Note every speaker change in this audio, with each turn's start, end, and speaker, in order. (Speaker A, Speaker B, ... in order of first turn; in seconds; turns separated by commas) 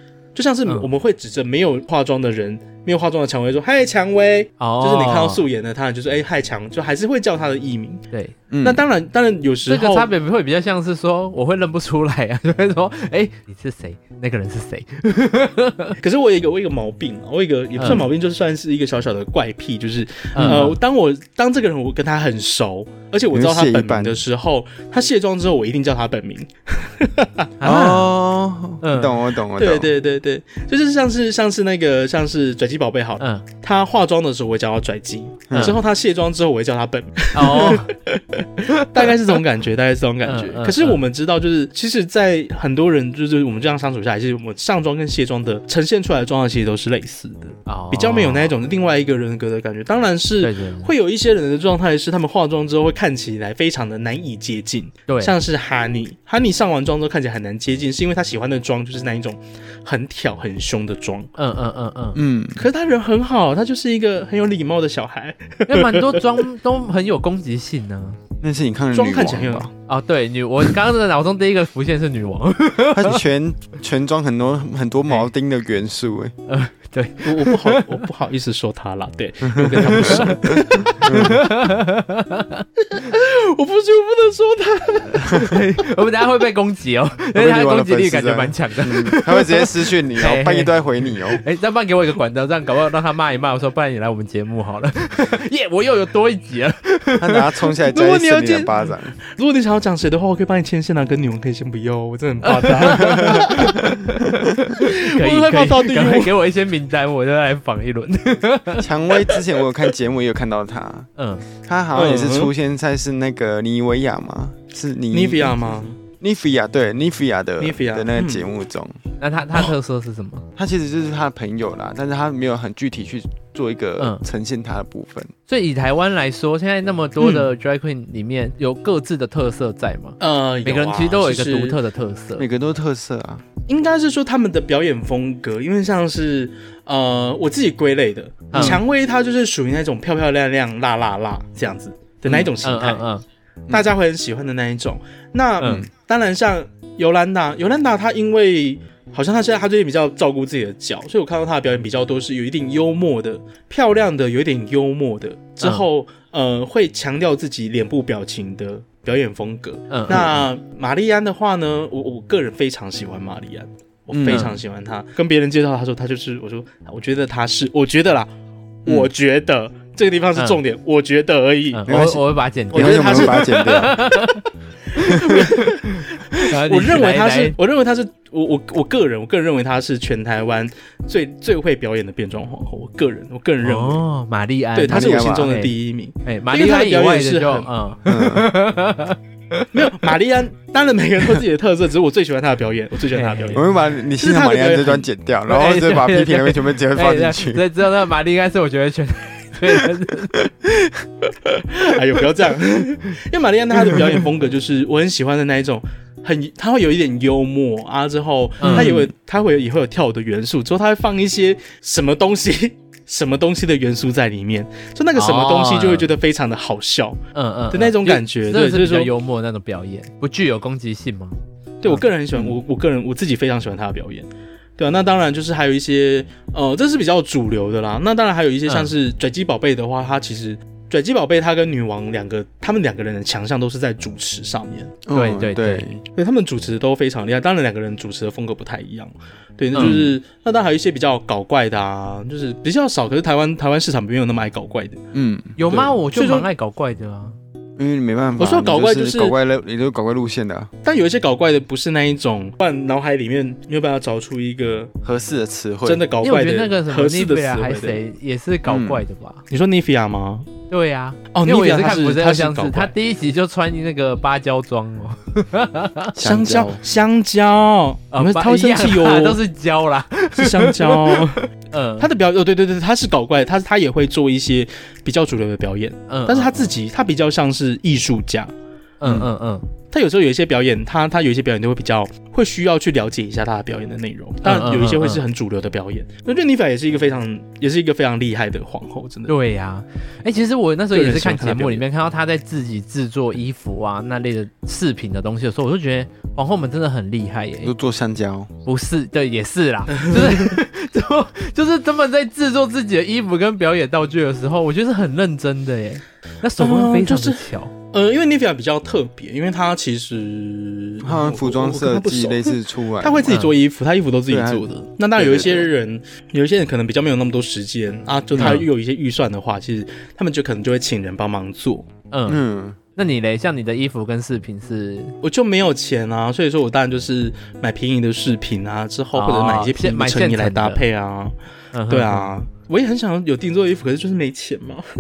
Speaker A: 0.3-8.0, Speaker B: 4.6-5.4, Speaker C: 8.5-8.8, Speaker A: 8.6-10.1, Speaker B: 9.7-16.0, Speaker A: 16.0-27.5, Speaker B: 17.8-18.1, Speaker C: 17.8-18.1, Speaker B: 20.4-20.8, Speaker C: 20.4-20.8, Speaker C: 23.3-24.2, Speaker B: 27.6-28.2, Speaker C: 27.6-29.9, Speaker B: 28.8-29.2, Speaker A: 29.6-61.3, Speaker B: 33.2-33.5, Speaker C: 35.5-35.8, Speaker B: 35.5-35.8, Speaker B: 37.3-37.9, Speaker B: 40.2-41.0, Speaker B: 47.7-48.5, Speaker B: 50.4-50.9, Speaker B: 55.1-55.3, Speaker B: 61.4-62.2, Speaker C: 62.1-62.6, Speaker A: 62.6-66.4, Speaker B: 65.7-68.2, Speaker C: 68.4-69.7, Speaker A: 68.9-69.7, Speaker B: 69.9-73.2, Speaker C: 72.9-76.3, Speaker B: 76.5-78.0, Speaker A: 77.2-81.4, Speaker C: 79.4-81.5, Speaker B: 79.8-82.7, Speaker A: 82.8-85.5, Speaker B: 85.2-97.6, Speaker C: 87.3-91.4, Speaker C: 97.2-99.2, Speaker A: 97.9-98.7, Speaker A: 99.3-104.1, Speaker B: 102.4-108.9, Speaker A: 104.7-106.3, Speaker C: 108.8-119.0, Speaker B: 111.2-111.4, Speaker A: 111.9-112.5, Speaker A: 115.1-116.0, Speaker A: 117.6-118.5, Speaker B: 119.2-120.5, Speaker C: 120.6-125.3, Speaker B: 125.5-132.5, Speaker A: 127.2-127.5, Speaker A: 130.2-131.8, Speaker C: 132.4-133.4, Speaker A: 133.7-143.1, Speaker B: 138.5-138.8, Speaker C: 138.5-138.8, Speaker C: 142.3-142.5, Speaker B: 142.6-143.2, Speaker A: 143.7-168.3, Speaker B: 159.9-160.3, Speaker C: 160.1-160.5, Speaker C: 164.1-164.6, Speaker B: 164.3-164.5, Speaker A: 168.8-171.9, Speaker B: 171.7-174.4, Speaker C: 171.9-174.1, Speaker A: 172.7-174.2, Speaker A: 175.0-184.0, Speaker B: 175.0-177.6, Speaker B: 183.6-190.1, Speaker A: 184.8-187.7, Speaker C: 184.9-185.6, Speaker C: 188.1-188.5, Speaker A: 189.7-195.1, Speaker B: 193.1-193.7, Speaker C: 193.5-197.6, Speaker B: 195.5-200.5, Speaker A: 201.4-219.1, Speaker B: 208.6-208.9, Speaker C: 208.6-209.1, Speaker B: 215.2-216.1, Speaker B: 217.3-222.0, Speaker A: 221.8-235.0, Speaker C: 235.1-236.0, Speaker B: 235.1-235.9, Speaker A: 236.2-245.0, Speaker C: 239.8-240.1, Speaker C: 245.1-245.8, Speaker B: 245.6-247.3, Speaker A: 245.7-246.5, Speaker C: 247.8-250.7, Speaker A: 248.4-249.4, Speaker A: 250.8-254.9, Speaker C: 255.0-256.0, Speaker A: 255.8-258.0, Speaker B: 256.2-259.4, Speaker C: 258.7-259.0, Speaker A: 259.5-260.5, Speaker B: 260.7-266.1, Speaker A: 261.3-262.9, Speaker C: 266.1-266.8, Speaker A: 266.2-269.4, Speaker B: 268.1-272.1, Speaker A: 270.4-271.5, Speaker A: 272.0-278.5, Speaker B: 276.1-276.7, Speaker B: 279.0-279.7, Speaker C: 279.0-279.3, Speaker A: 279.9-289.3, Speaker B: 284.4-285.2, Speaker B: 289.3-297.7, Speaker A: 290.9-291.8, Speaker C: 297.6-298.5, Speaker B: 298.7-307.7, Speaker A: 299.9-300.5, Speaker A: 306.6-321.9, Speaker C: 311.0-313.4, Speaker B: 313.3-313.5, Speaker C: 314.3-315.7, Speaker C: 318.4-318.6, Speaker B: 318.4-318.7, Speaker B: 322.1-322.4, Speaker C: 322.3-322.8, Speaker B: 323.0-325.2, Speaker A: 325.2-331.4, Speaker B: 329.1-330.8, Speaker B: 331.7-332.3, Speaker A: 331.9-334.9